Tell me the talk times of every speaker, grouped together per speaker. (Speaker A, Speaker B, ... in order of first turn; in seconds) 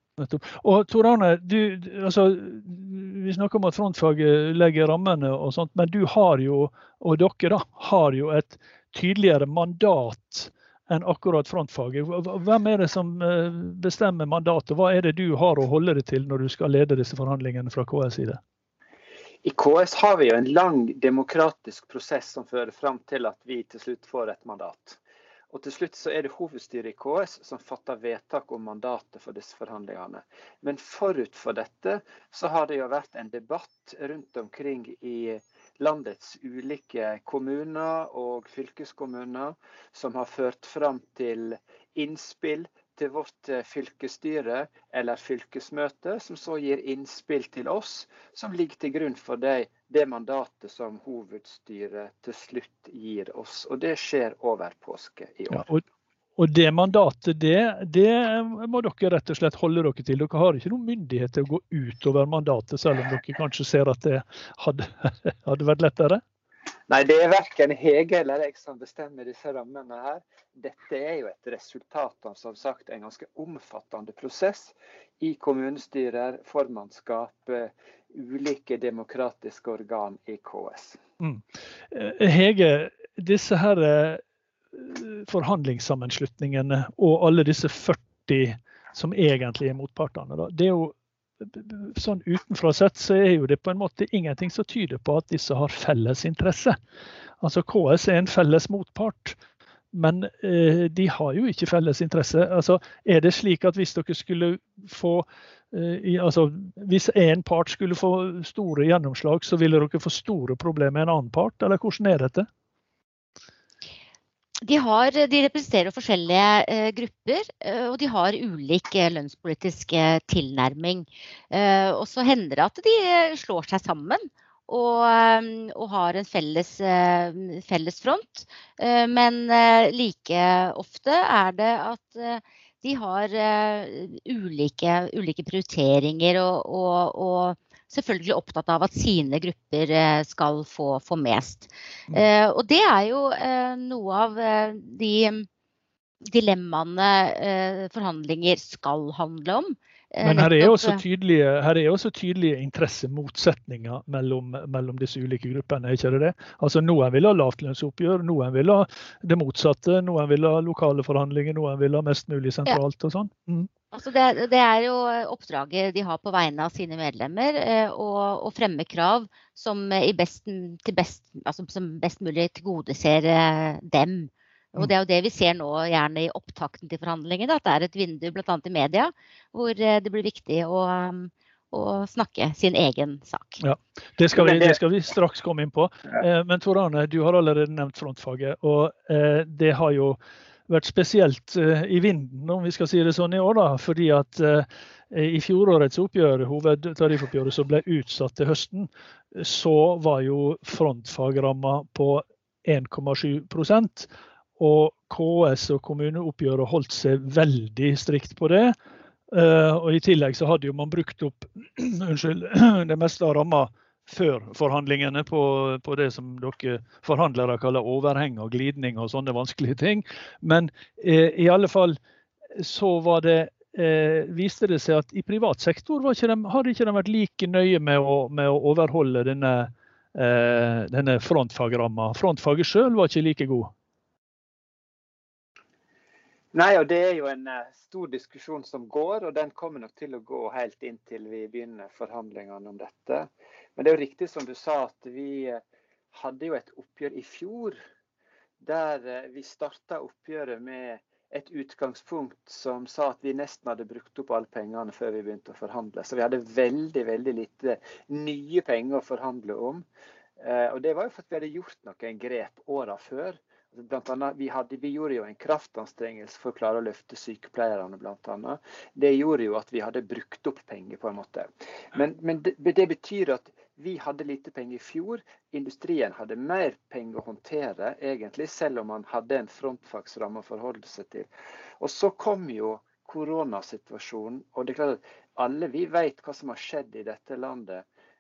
Speaker A: 0.2-18.4, 55.5-55.8, 56.4-66.2, 81.2-84.2, 84.7-96.8, 97.4-99.4, 99.9-112.5, 150.2-163.7, 183.6-208.7, 209.3-222.0, 222.6-233.7
Speaker B: 19.4-25.0, 25.5-55.7, 66.9-81.0, 184.3-184.8, 236.5-245.6, 246.1-247.8, 248.6-259.9, 260.4-281.3, 281.8-287.9
Speaker C: 114.6-145.5, 146.3-151.0, 163.9-183.6